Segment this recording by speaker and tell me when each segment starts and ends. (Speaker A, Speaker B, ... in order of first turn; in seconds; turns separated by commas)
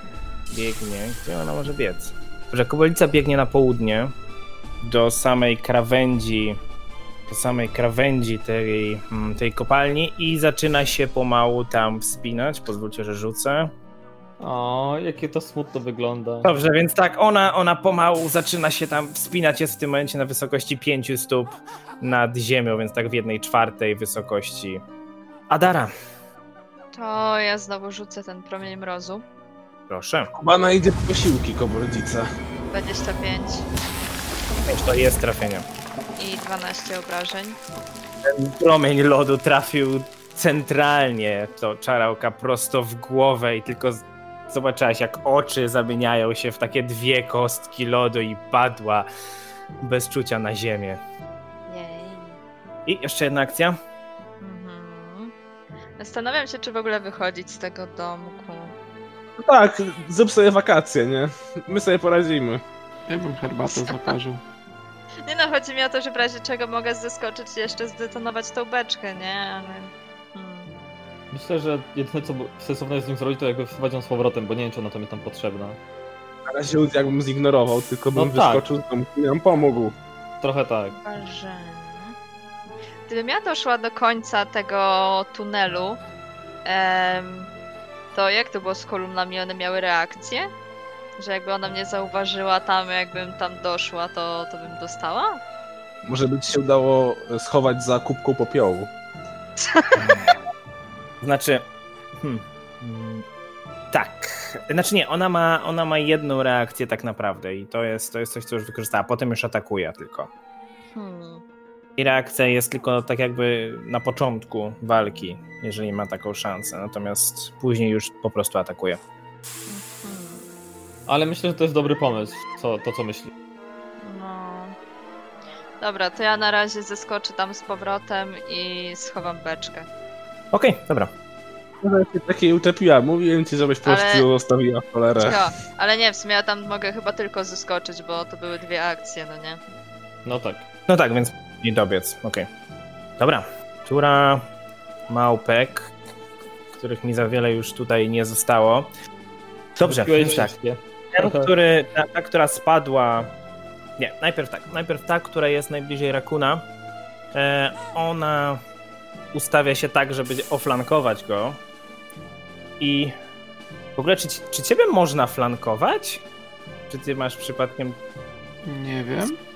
Speaker A: 0.5-4.1, Speaker A: 4.8-6.6, Speaker A: 7.3-13.7, Speaker B: 14.4-16.5, Speaker A: 16.4-24.8, Speaker A: 25.5-25.9, Speaker C: 26.9-29.2, Speaker A: 29.9-30.3, Speaker D: 30.4-32.3, Speaker C: 32.7-33.7, Speaker A: 34.7-35.7, Speaker C: 36.2-37.6, Speaker A: 38.2-49.1, Speaker A: 49.8-51.0, Speaker C: 51.7-52.4, Speaker A: 52.9-53.8, Speaker C: 54.4-55.3, Speaker C: 56.0-58.8, Speaker D: 59.4-62.6, Speaker E: 63.1-64.4, Speaker C: 63.7-64.1, Speaker C: 65.2-70.7, Speaker B: 71.3-75.8, Speaker D: 76.5-80.0, Speaker B: 78.2-78.6, Speaker B: 80.4-81.0, Speaker C: 81.0-82.2, Speaker C: 83.1-86.0, Speaker C: 86.7-87.5, Speaker C: 88.1-90.5, Speaker C: 91.2-95.4, Speaker D: 96.0-98.9, Speaker C: 99.6-100.3, Speaker A: 100.0-100.4, Speaker A: 101.2-101.7, Speaker A: 102.2-103.2, Speaker A: 103.9-110.3, Speaker C: 111.0-111.4, Speaker A: 112.0-119.0, Speaker C: 119.7-120.4, Speaker B: 121.1-123.3, Speaker C: 124.0-124.8, Speaker C: 125.8-129.9, Speaker A: 130.5-131.1, Speaker D: 131.8-135.5, Speaker C: 133.8-134.3, Speaker C: 135.2-139.6, Speaker B: 140.2-140.7, Speaker A: 140.9-142.5, Speaker A: 143.2-144.5, Speaker A: 145.1-145.9, Speaker A: 146.8-148.9, Speaker A: 149.8-150.5, Speaker B: 149.8-151.5, Speaker A: 151.1-153.3, Speaker A: 154.0-156.7, Speaker A: 157.3-158.6, Speaker A: 159.3-161.6, Speaker A: 162.8-163.1, Speaker A: 164.0-166.2, Speaker A: 166.9-168.0, Speaker E: 168.6-169.4